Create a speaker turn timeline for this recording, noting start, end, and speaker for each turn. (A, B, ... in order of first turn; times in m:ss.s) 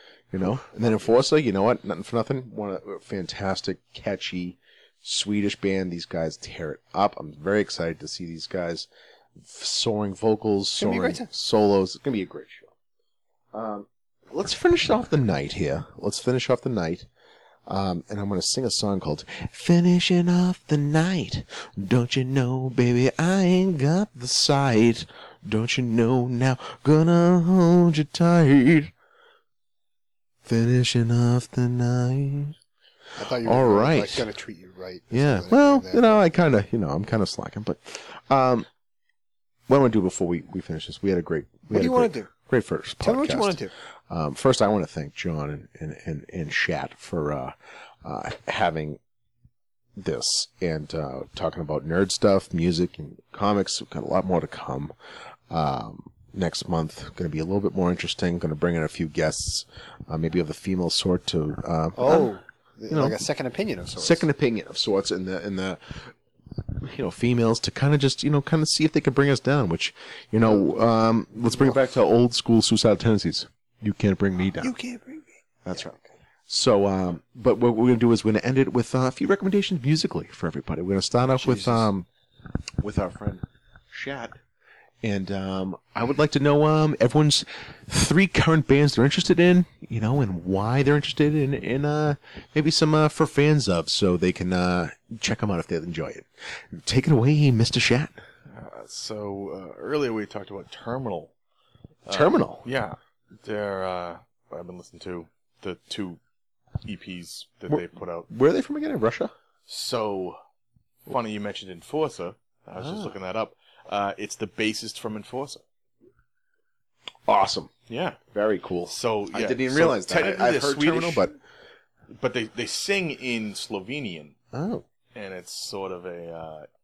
0:00.3-0:12.7 A
0:10.8-0:11.3 B
0:13.5-0:17.1 A
0:17.7-0:28.9 A
0:30.4-0:32.6 A
0:33.2-0:36.3 B
0:33.4-0:34.3 A
0:35.1-0:38.7 A
0:39.7-0:49.0 A
0:41.7-0:42.3 B
0:43.0-0:43.7 B
0:50.0-0:54.9 A
0:55.5-1:02.3 A
1:02.0-1:04.3 B
1:02.9-1:03.2 A
1:04.0-1:06.1 A
1:06.8-1:14.7 A
1:14.6-1:15.8 B
1:15.6-1:22.1 A
1:21.3-1:21.9 B
1:22.8-1:24.4 A
1:25.0-1:38.2 A
1:38.5-1:41.3 C
1:42.1-1:46.2 C
1:42.1-1:42.7 A
1:46.8-1:48.3 C
1:47.7-1:49.3 A
1:49.7-1:50.4 C
1:51.1-1:55.6 C
1:52.8-1:53.2 A
1:57.3-1:57.7 A
1:57.9-1:58.2 C
1:58.3-2:01.4 A
1:58.9-2:01.4 C
2:02.1-2:04.4 C
2:04.5-2:04.8 A
2:05.2-2:06.7 C